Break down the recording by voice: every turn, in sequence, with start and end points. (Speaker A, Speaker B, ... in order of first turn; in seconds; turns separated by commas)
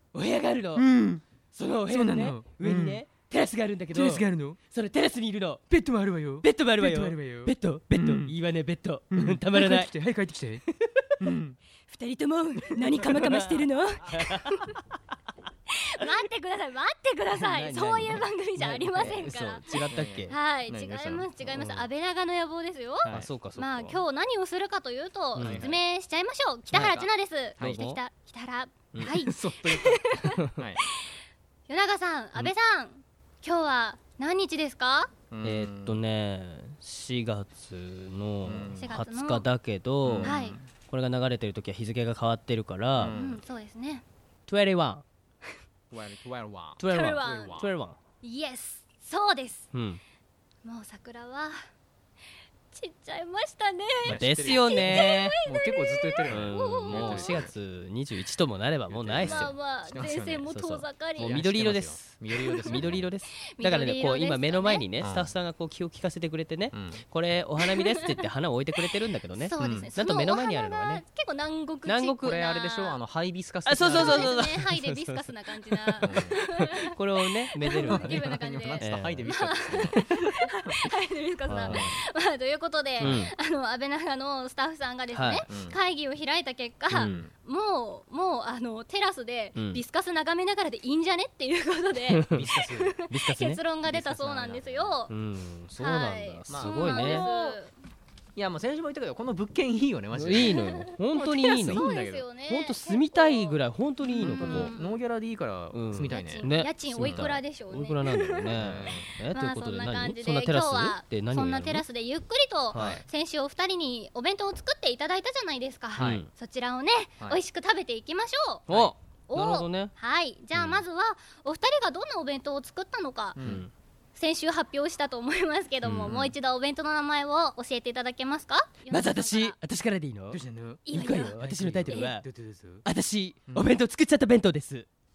Speaker A: 0.1-0.9, Speaker B: 0.8-1.2, Speaker A: 1.5-5.6, Speaker B: 1.9-3.0, Speaker B: 3.9-4.6, Speaker B: 5.7-8.3, Speaker A: 6.4-9.9, Speaker B: 9.1-10.6, Speaker A: 10.8-11.1, Speaker B: 11.2-11.6, Speaker C: 11.9-14.8, Speaker A: 12.8-14.5, Speaker C: 15.7-30.4, Speaker A: 17.3-20.4, Speaker B: 19.9-21.3, Speaker A: 21.5-21.8, Speaker B: 23.1-23.3, Speaker A: 23.1-24.0, Speaker A: 25.4-25.7, Speaker B: 25.4-25.8, Speaker A: 26.7-27.0, Speaker A: 27.6-28.0, Speaker B: 29.0-30.8, Speaker A: 30.2-30.5, Speaker C: 31.7-35.1, Speaker B: 35.3-36.0, Speaker A: 35.4-40.4, Speaker B: 38.5-38.9, Speaker C: 38.8-39.5, Speaker B: 40.0-40.7, Speaker C: 40.2-40.6, Speaker A: 40.9-43.2, Speaker B: 43.0-43.4, Speaker C: 43.1-44.0, Speaker A: 44.5-45.0, Speaker B: 45.9-47.7, Speaker C: 46.8-47.6, Speaker A: 46.8-48.0, Speaker C: 48.2-49.7, Speaker A: 49.7-50.0, Speaker C: 50.6-51.6, Speaker C: 52.7-57.5, Speaker B: 54.0-57.5, Speaker A: 54.0-55.4, Speaker A: 56.3-59.6, Speaker B: 58.9-60.5, Speaker C: 59.2-61.4, Speaker A: 60.5-71.0, Speaker B: 61.2-63.1, Speaker C: 62.4-63.0, Speaker C: 63.5-64.9, Speaker B: 65.0-65.3, Speaker B: 66.7-67.0, Speaker C: 69.4-73.0, Speaker B: 69.6-69.9, Speaker A: 71.8-72.4, Speaker B: 72.2-74.5, Speaker A: 73.7-79.3, Speaker C: 73.9-76.9, Speaker B: 76.0-76.6, Speaker C: 77.6-95.1, Speaker B: 77.8-80.1, Speaker A: 79.9-80.3, Speaker A: 81.5-81.9, Speaker B: 81.7-82.0, Speaker A: 83.0-83.3, Speaker A: 85.1-85.5, Speaker B: 85.5-85.8, Speaker A: 86.9-87.2, Speaker B: 87.0-87.3, Speaker A: 89.6-89.8, Speaker A: 92.1-92.4, Speaker B: 92.3-93.0, Speaker A: 93.1-93.6, Speaker B: 93.8-95.0, Speaker A: 95.1-97.3, Speaker C: 95.8-97.7, Speaker B: 96.5-97.6, Speaker B: 98.4-102.2, Speaker A: 100.1-101.8, Speaker C: 100.5-105.0, Speaker A: 102.5-104.7, Speaker B: 104.2-107.3, Speaker A: 105.7-111.8, Speaker C: 106.1-118.7, Speaker B: 108.5-109.1, Speaker A: 112.7-113.0, Speaker B: 112.7-113.0, Speaker B: 116.0-116.2, Speaker A: 116.0-116.3, Speaker B: 118.7-118.9, Speaker A: 118.7-119.9, Speaker C: 119.3-123.4, Speaker B: 123.3-123.6, Speaker A: 123.4-123.7, Speaker C: 124.2-129.6, Speaker B: 125.8-126.3, Speaker A: 128.9-132.3, Speaker B: 130.3-130.8, Speaker C: 130.9-132.1, Speaker B: 131.4-132.8, Speaker A: 132.8-134.9